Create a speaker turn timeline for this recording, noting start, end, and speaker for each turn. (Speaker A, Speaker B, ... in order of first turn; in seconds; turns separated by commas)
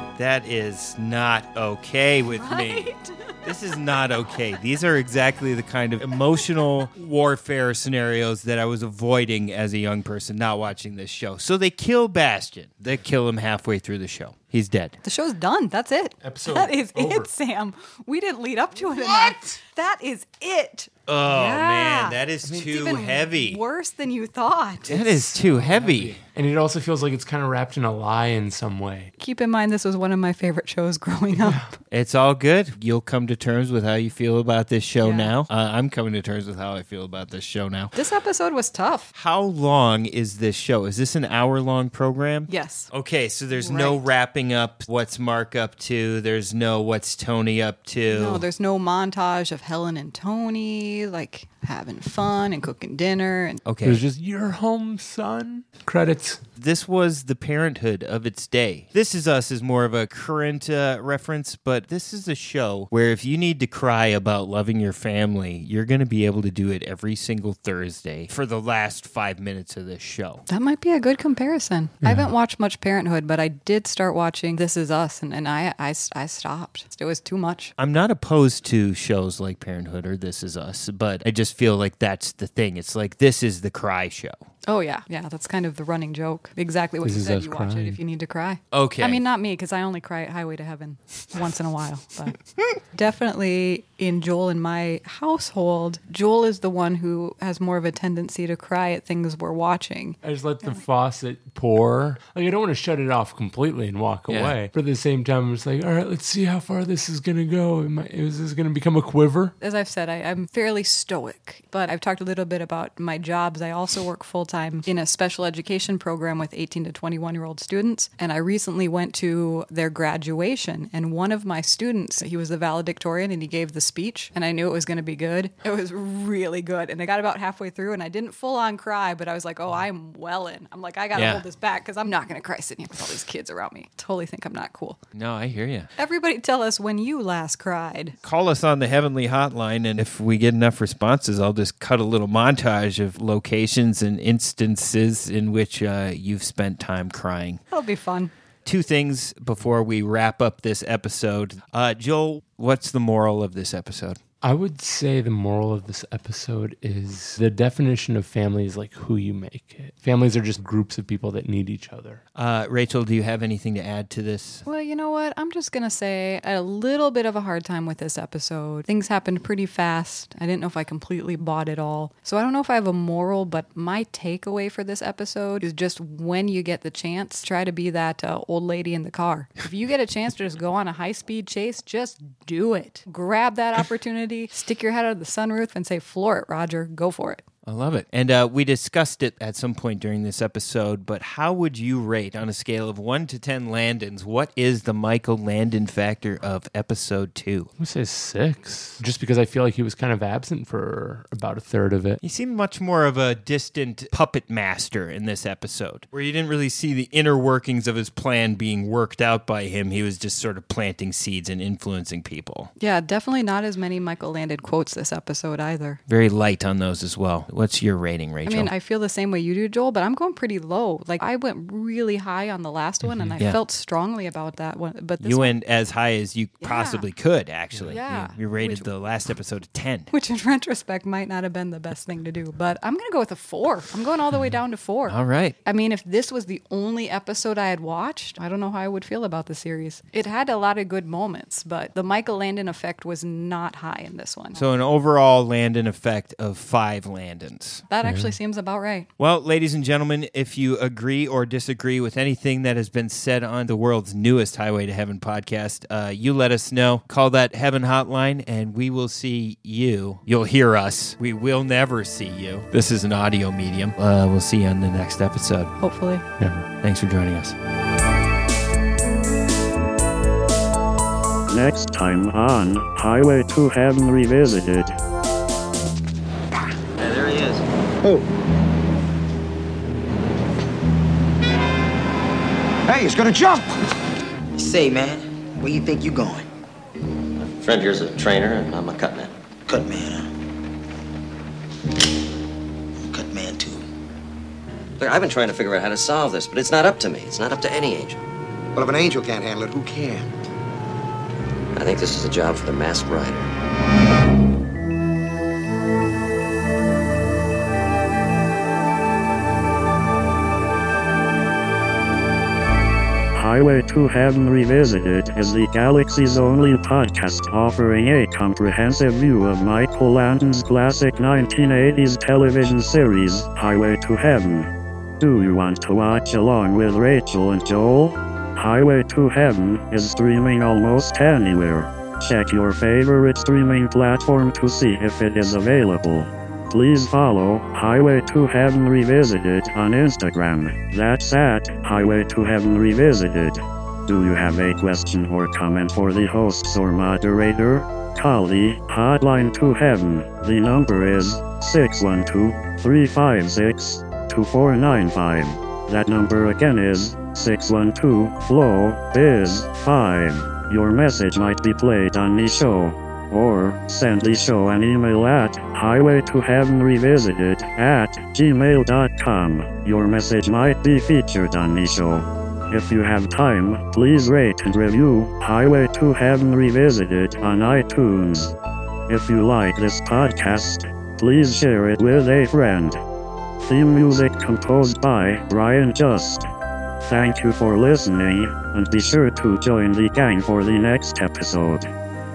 Speaker A: 0.2-2.9, Speaker B: 2.3-3.4, Speaker A: 3.4-15.0, Speaker B: 15.0-25.0, Speaker C: 16.2-17.3, Speaker A: 21.1-23.6, Speaker A: 24.9-26.2, Speaker C: 24.9-29.1, Speaker B: 29.2-31.7, Speaker C: 31.4-31.6, Speaker A: 31.9-38.0, Speaker B: 35.0-35.3, Speaker B: 37.9-39.1, Speaker A: 39.1-48.4, Speaker B: 42.5-42.9, Speaker B: 43.5-44.0, Speaker B: 48.1-53.6, Speaker A: 53.6-54.0, Speaker C: 53.8-56.4, Speaker A: 56.6-70.4, Speaker B: 70.5-77.7, Speaker C: 72.0-72.3, Speaker A: 77.8-84.4, Speaker B: 84.7-92.3, Speaker C: 87.0-88.0, Speaker A: 88.7-89.2, Speaker B: 92.9-100.2, Speaker C: 100.2-109.5, Speaker A: 104.3-104.5, Speaker B: 109.6-135.0, Speaker A: 131.1-131.4, Speaker A: 135.1-135.9, Speaker B: 136.0-138.2, Speaker A: 138.2-147.6, Speaker B: 147.7-148.3, Speaker A: 148.7-154.2, Speaker C: 154.4-162.2, Speaker A: 162.3-164.6, Speaker B: 164.7-187.4, Speaker A: 187.6-197.7, Speaker C: 197.8-202.2, Speaker A: 202.2-212.7, Speaker B: 212.8-216.0, Speaker A: 216.1-218.7, Speaker B: 218.4-225.6, Speaker C: 223.0-223.4, Speaker A: 225.2-230.1, Speaker B: 226.6-227.1, Speaker B: 227.9-228.9, Speaker B: 230.1-244.7, Speaker A: 235.1-235.6, Speaker A: 244.5-247.9, Speaker B: 247.9-249.1, Speaker A: 249.2-265.7, Speaker B: 265.8-266.2, Speaker C: 266.4-266.7, Speaker A: 266.8-267.6, Speaker D: 271.5-275.0, Speaker E: 277.0-277.6, Speaker F: 282.9-283.7, Speaker G: 284.6-286.4, Speaker E: 287.6-289.3, Speaker G: 289.7-290.1, Speaker G: 293.2-293.8, Speaker E: 295.0-298.2, Speaker F: 298.7-300.3, Speaker E: 301.7-303.5, Speaker D: 313.3-324.7, Speaker D: 325.2-378.5, Speaker D: 379.1-383.0, Speaker D: 383.6-386.5, Speaker D: 387.1-391.9